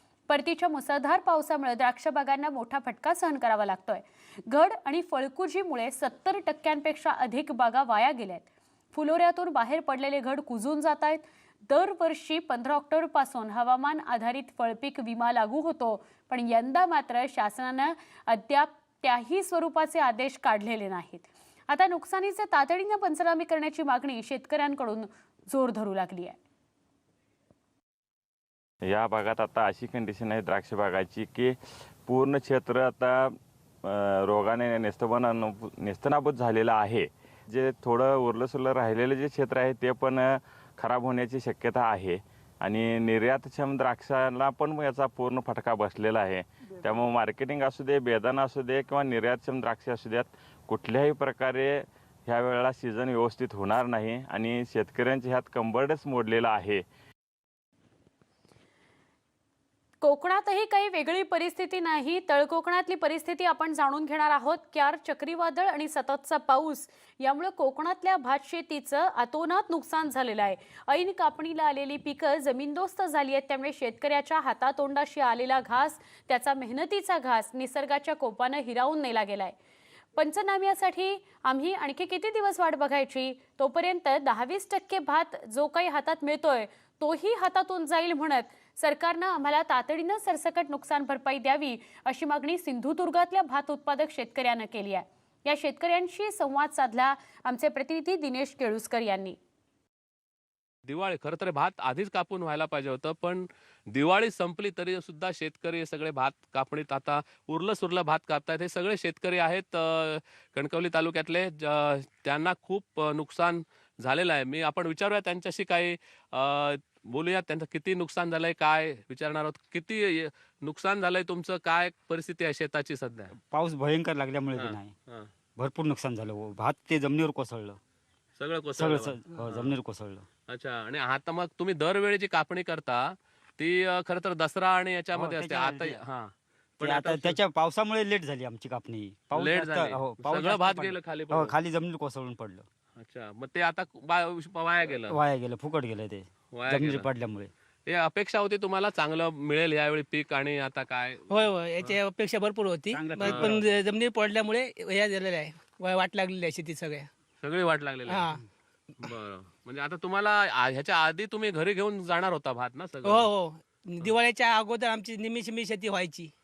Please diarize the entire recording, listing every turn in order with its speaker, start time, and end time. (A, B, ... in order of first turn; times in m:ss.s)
0:00.3-0:26.4 A
0:28.9-0:56.8 B
1:00.0-1:19.6 A
1:20.2-1:39.4 A
1:40.8-2:03.3 C
2:03.4-2:04.9 D
2:04.5-2:05.3 C
2:05.6-2:07.8 D
2:08.4-2:09.8 C
2:08.7-2:10.2 D
2:10.5-2:17.4 C
2:15.1-2:16.0 D
2:16.8-2:22.6 D
2:19.3-2:21.6 C
2:23.0-2:25.2 C
2:25.1-2:27.5 D
2:26.5-2:27.1 C
2:27.8-2:32.0 C
2:31.3-2:37.1 E
2:32.9-2:33.6 D
2:33.1-2:33.6 C
2:37.4-2:38.4 C
2:38.1-2:38.4 E
2:39.0-2:43.3 C
2:43.0-2:46.3 E